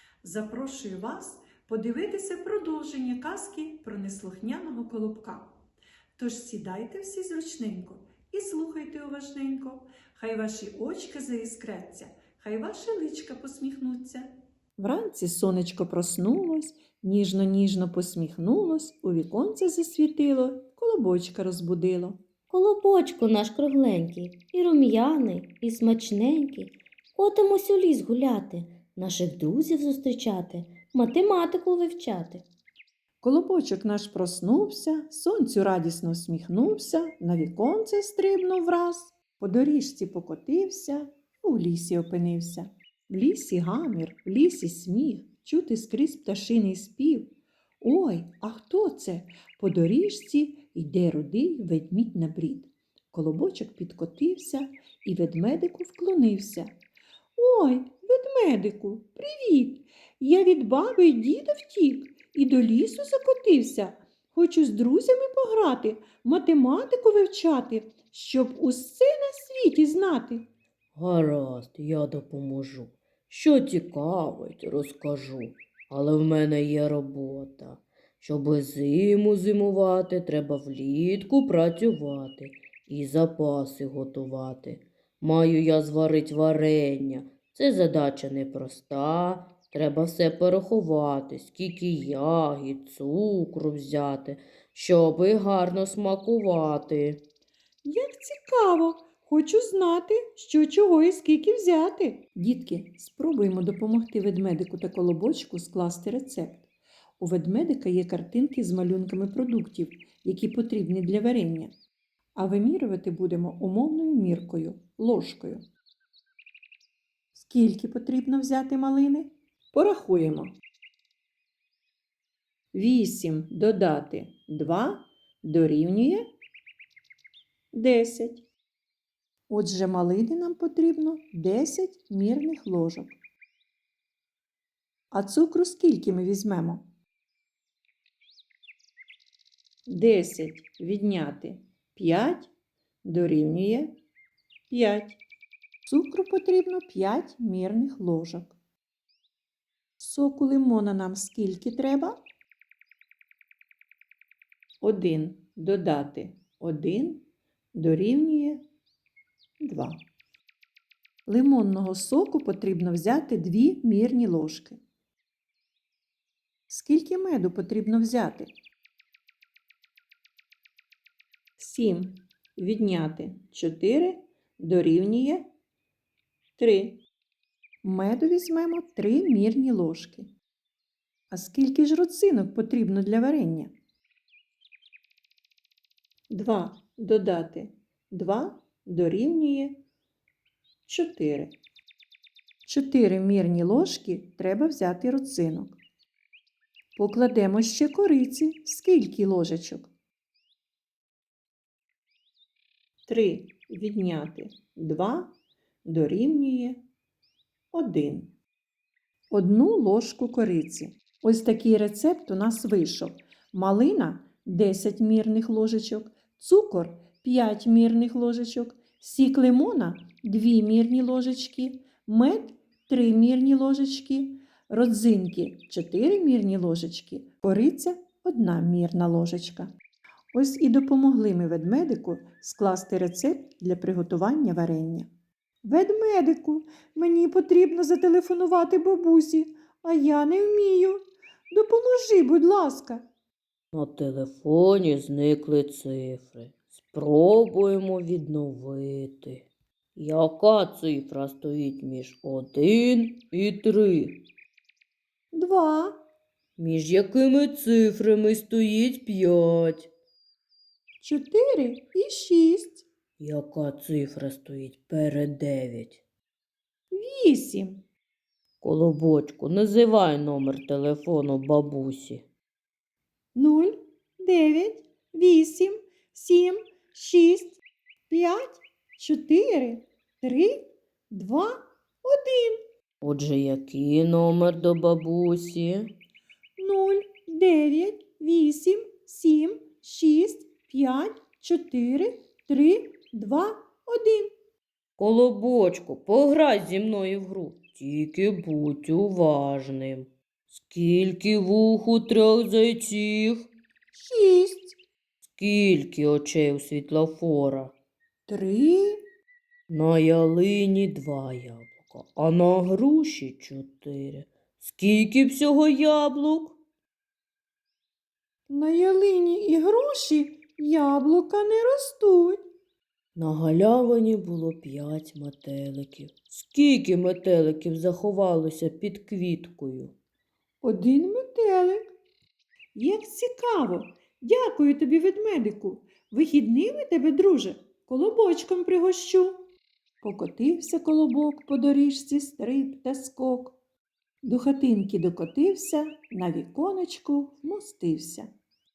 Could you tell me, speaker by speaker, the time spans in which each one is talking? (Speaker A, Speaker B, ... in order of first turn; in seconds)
Speaker A: 0.2-5.5, 6.2-22.2, 33.2-56.8, 57.4-70.4, 97.8-106.7, 107.2-111.7, 112.4-115.6, 117.3-120.6, 122.7-126.3, 127.7-128.4, 129.5-133.2, 135.1-136.8, 139.9-142.5, 143.0-144.0, 144.7-145.2, 145.9-148.6, 150.0-152.2, 154.8-158.6, 159.6-160.0, 161.3-164.8, 166.7-168.5, 171.6-175.5, 176.6-177.0, 177.8-180.3, 181.3-183.7, 186.3-189.8, 190.9-191.6, 192.7-195.8, 197.0-199.9, 203.1-205.3, 205.8-206.8, 207.7-208.3, 209.3-229.7, 230.3-235.1, 235.6-241.0, 241.5-243.1, 255.3-256.0, 261.0-262.9, 266.9-267.8, 273.4-282.6, 286.6-294.3, 303.9-304.8, 308.3-309.0, 318.5-322.4, 330.6-331.9, 332.8-339.5, 340.0-343.6, 344.2-348.3
Speaker B: 22.5-32.5, 71.0-97.2, 243.7-254.2, 256.6-259.9, 263.2-266.0, 268.6-272.3, 283.0-285.9, 295.0-303.5, 305.2-307.7, 309.7-316.6, 323.1-329.9